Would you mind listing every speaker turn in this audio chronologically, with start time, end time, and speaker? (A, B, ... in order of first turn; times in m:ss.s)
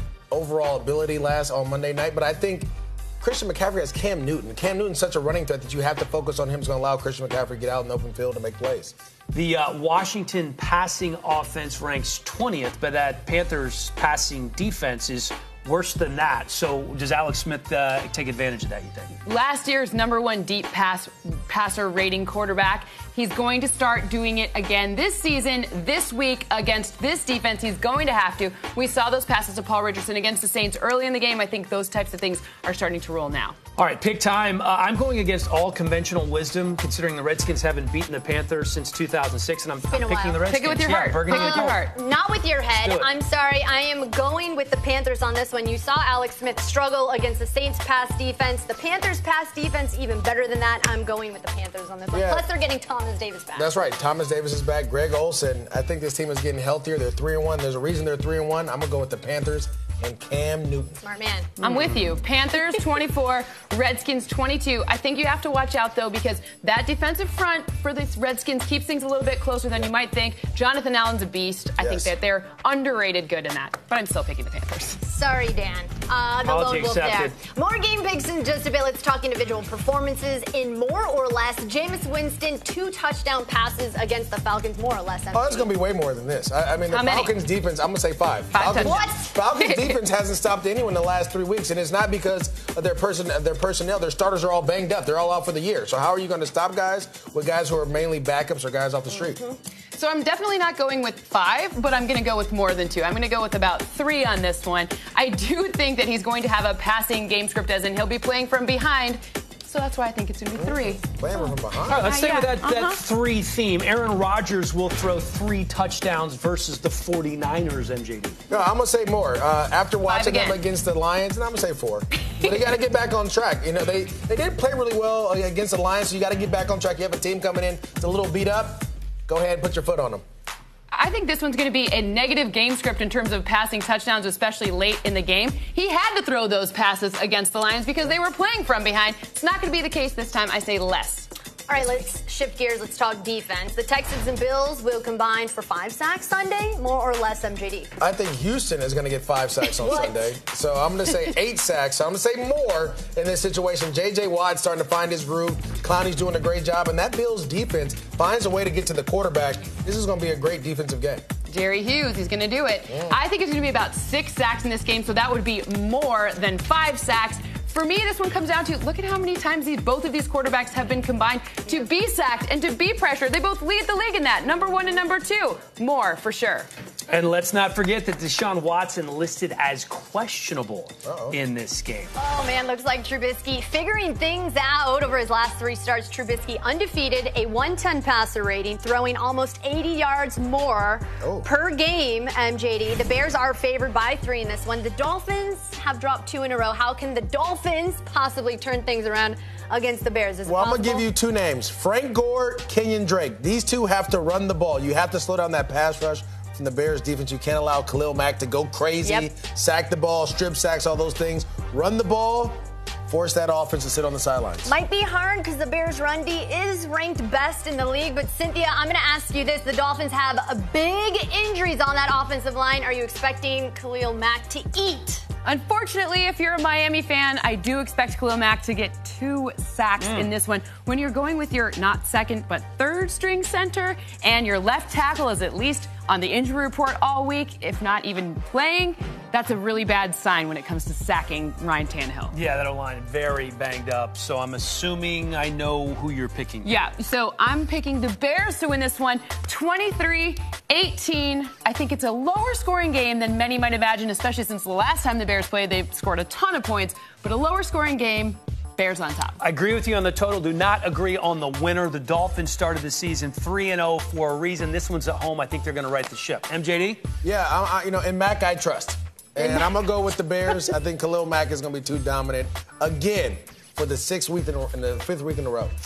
0:00.3-0:02.7 A
0:03.2-0:09.0 A
0:09.3-0:19.1 B
0:19.2-0:33.6 C
0:33.8-0:41.8 B
0:39.9-0:40.5 D
0:40.5-0:42.0 C
0:41.3-0:53.7 D
0:42.7-0:43.1 B
0:52.1-0:52.5 A
0:53.5-1:01.0 A
1:01.0-1:01.5 D
1:01.6-1:15.0 C
1:11.8-1:12.1 A
1:15.0-1:25.7 D
1:16.4-1:17.4 B
1:25.3-1:39.4 A
1:26.9-1:27.3 C
1:28.5-1:30.0 C
1:28.8-1:29.3 D
1:39.9-1:53.0 C
1:50.6-1:52.1 A
1:51.9-1:58.4 B
1:58.5-2:10.2 A
2:00.0-2:00.6 C
2:10.9-2:21.3 C
2:21.7-2:27.9 D
2:28.0-2:41.2 A
2:29.6-2:30.3 D
2:41.5-2:56.7 C
2:42.9-2:43.2 A
2:57.1-3:02.1 B
3:01.0-3:01.4 A
3:02.2-3:21.1 D
3:11.2-3:11.5 A
3:20.4-3:34.7 A
3:29.0-3:29.3 D
3:34.7-3:45.3 D
3:45.4-4:02.4 C
3:50.0-3:50.3 B
4:02.3-4:06.7 B
4:06.6-4:19.4 C
4:19.4-4:27.0 B
4:27.2-4:35.7 A
4:29.4-4:29.8 D